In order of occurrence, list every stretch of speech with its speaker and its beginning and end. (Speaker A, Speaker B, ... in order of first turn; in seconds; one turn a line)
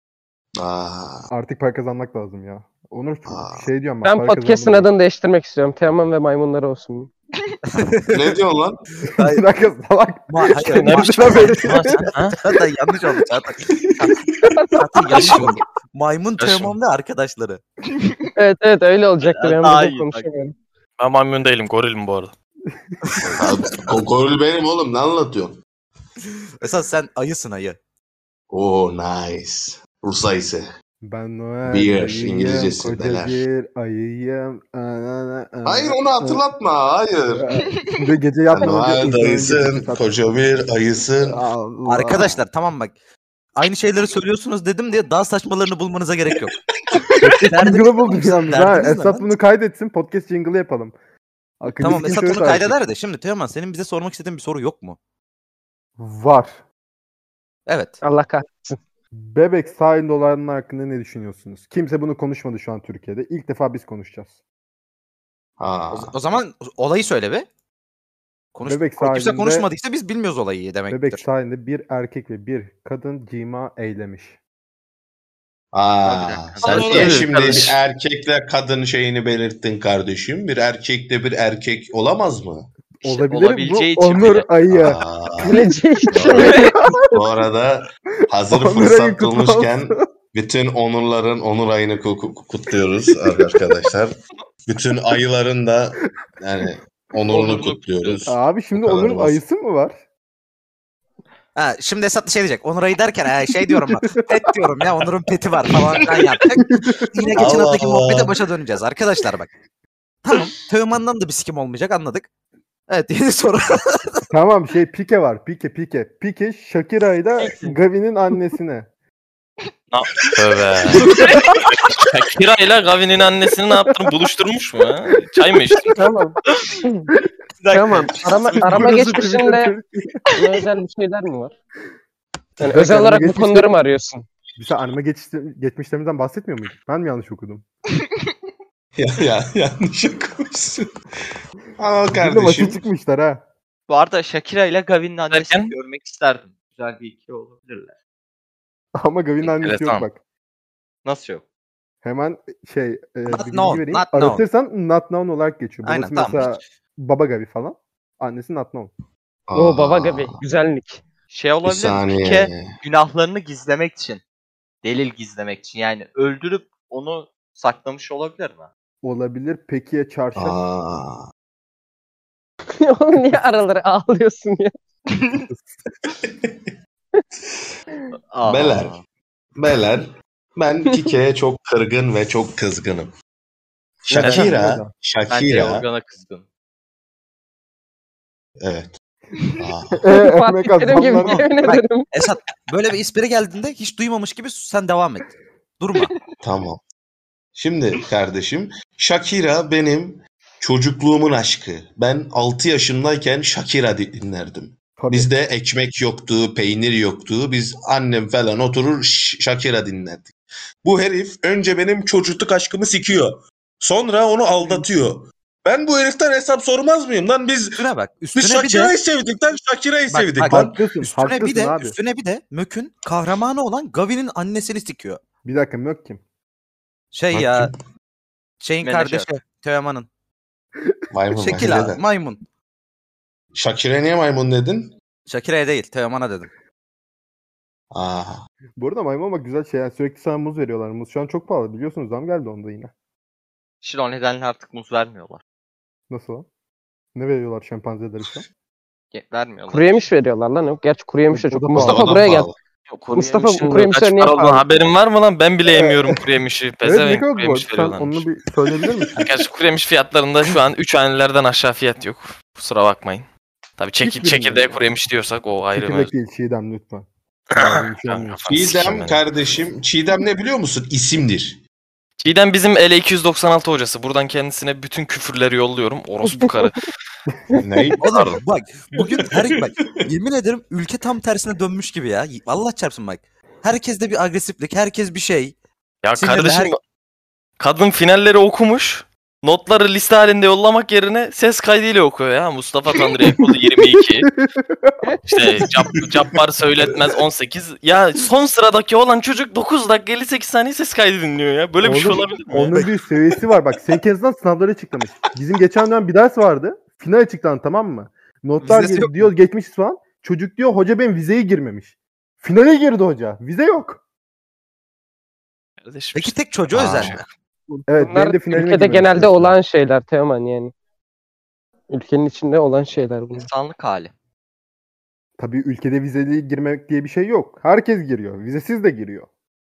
Speaker A: 0.6-1.3
Speaker B: 1.3-4.9
Speaker A: 3.3-3.7
Speaker C: 4.0-7.1
Speaker D: 7.7-8.3
Speaker A: 8.1-8.8
Speaker D: 9.1-9.4
Speaker B: 9.1-12.3
Speaker D: 10.3-13.7
Speaker E: 10.6-12.4
Speaker A: 13.9-14.2
Speaker D: 14.7-17.6
Speaker B: 15.1-15.6
Speaker E: 16.4-16.7
Speaker C: 18.4-20.5
Speaker F: 19.2-20.3
Speaker E: 21.0-22.3
Speaker B: 23.1-23.4
Speaker A: 23.3-25.6
Speaker D: 26.6-27.8
Speaker A: 28.5-30.7
Speaker B: 31.0-36.4
Speaker A: 31.7-33.4
Speaker A: 35.7-37.5
Speaker B: 37.3-40.1
Speaker A: 38.5-41.4
Speaker B: 41.2-42.4
Speaker D: 41.9-42.9
Speaker D: 43.6-46.6
Speaker A: 46.9-47.3
Speaker B: 47.2-50.9
Speaker D: 47.4-49.3
Speaker B: 51.6-52.8
Speaker D: 51.8-55.0
Speaker B: 56.0-56.6
Speaker D: 57.7-58.0
Speaker C: 58.0-58.8
Speaker B: 59.1-64.3
Speaker A: 65.6-66.1
Speaker D: 65.9-67.5
Speaker D: 68.5-71.2
Speaker B: 68.6-69.7
Speaker B: 70.9-74.3
Speaker A: 75.7-82.7
Speaker F: 76.0-77.3
Speaker E: 76.6-77.8
Speaker B: 83.0-85.5
Speaker F: 83.0-84.6
Speaker A: 84.7-85.6
Speaker C: 85.4-86.9
Speaker A: 86.1-86.4
Speaker B: 86.3-86.9
Speaker A: 87.1-94.1
Speaker B: 88.5-90.0
Speaker A: 94.7-99.4
Speaker F: 97.3-98.3
Speaker B: 98.3-100.0
Speaker D: 101.5-109.5
Speaker B: 103.9-104.5
Speaker B: 106.6-107.2
Speaker A: 107.3-108.3
Speaker D: 110.2-112.3
Speaker D: 112.9-114.2
Speaker B: 114.3-118.9
Speaker C: 117.4-117.7
Speaker E: 119.9-126.0
Speaker C: 126.0-127.1
Speaker F: 127.6-129.3
Speaker C: 127.7-129.7
Speaker B: 128.6-130.2
Speaker C: 130.3-131.5
Speaker C: 132.6-134.3
Speaker B: 132.6-133.7
Speaker B: 134.6-137.7
Speaker A: 139.0-140.9
Speaker A: 141.8-142.8
Speaker B: 142.1-143.4
Speaker F: 143.9-147.9
Speaker E: 145.3-145.7
Speaker B: 148.9-150.2
Speaker E: 149.5-150.0
Speaker F: 151.0-151.4
Speaker B: 152.0-158.9
Speaker D: 153.3-154.4
Speaker D: 155.8-156.5
Speaker A: 159.5-160.4
Speaker C: 159.5-161.0
Speaker F: 161.3-164.2
Speaker A: 161.7-162.8
Speaker F: 164.8-168.7
Speaker B: 169.0-170.6
Speaker A: 170.3-171.3
Speaker C: 172.8-174.7
Speaker A: 176.2-176.7
Speaker F: 178.3-179.0
Speaker A: 178.5-178.9
Speaker A: 179.6-183.1
Speaker A: 184.0-185.9
Speaker B: 184.1-184.9
Speaker E: 184.2-184.5
Speaker F: 185.3-186.4
Speaker A: 188.6-189.0
Speaker A: 189.6-190.0
Speaker B: 190.0-191.8
Speaker C: 190.1-192.1
Speaker D: 192.1-196.1
Speaker A: 196.4-196.8
Speaker A: 197.6-217.8
Speaker B: 205.0-205.3
Speaker B: 214.6-214.8
Speaker D: 217.8-218.9
Speaker A: 218.3-220.8
Speaker D: 220.1-225.2
Speaker B: 220.4-222.0
Speaker B: 225.4-226.2
Speaker D: 227.1-227.7
Speaker A: 227.3-227.8
Speaker D: 228.6-230.1
Speaker F: 228.8-229.4
Speaker A: 231.1-232.0
Speaker D: 231.3-232.4
Speaker A: 233.5-234.9
Speaker D: 235.3-236.5
Speaker A: 237.9-238.4
Speaker B: 238.8-242.9
Speaker F: 243.8-245.4
Speaker B: 246.1-246.5
Speaker B: 247.2-248.4
Speaker F: 249.1-250.0
Speaker C: 249.7-252.5
Speaker B: 251.3-252.2
Speaker A: 251.7-252.6
Speaker E: 252.9-258.3
Speaker C: 253.1-254.7
Speaker B: 255.7-256.2
Speaker B: 256.8-259.2
Speaker E: 259.1-263.2
Speaker E: 263.8-266.1
Speaker B: 264.0-264.8
Speaker B: 265.8-268.4
Speaker E: 267.5-269.2
Speaker A: 268.5-271.6
Speaker E: 272.2-276.9
Speaker A: 277.6-278.2
Speaker D: 278.0-285.5
Speaker E: 278.1-278.4
Speaker A: 279.0-279.5
Speaker E: 286.0-286.8
Speaker D: 286.2-286.7
Speaker E: 287.6-294.3
Speaker B: 294.3-294.9
Speaker E: 295.2-302.9
Speaker B: 301.8-314.0
Speaker D: 308.6-309.3
Speaker E: 315.8-317.2
Speaker D: 316.1-317.2
Speaker A: 316.8-317.2
Speaker C: 317.7-320.7
Speaker B: 317.9-319.6
Speaker C: 321.9-323.5
Speaker F: 323.3-324.1
Speaker B: 325.4-329.3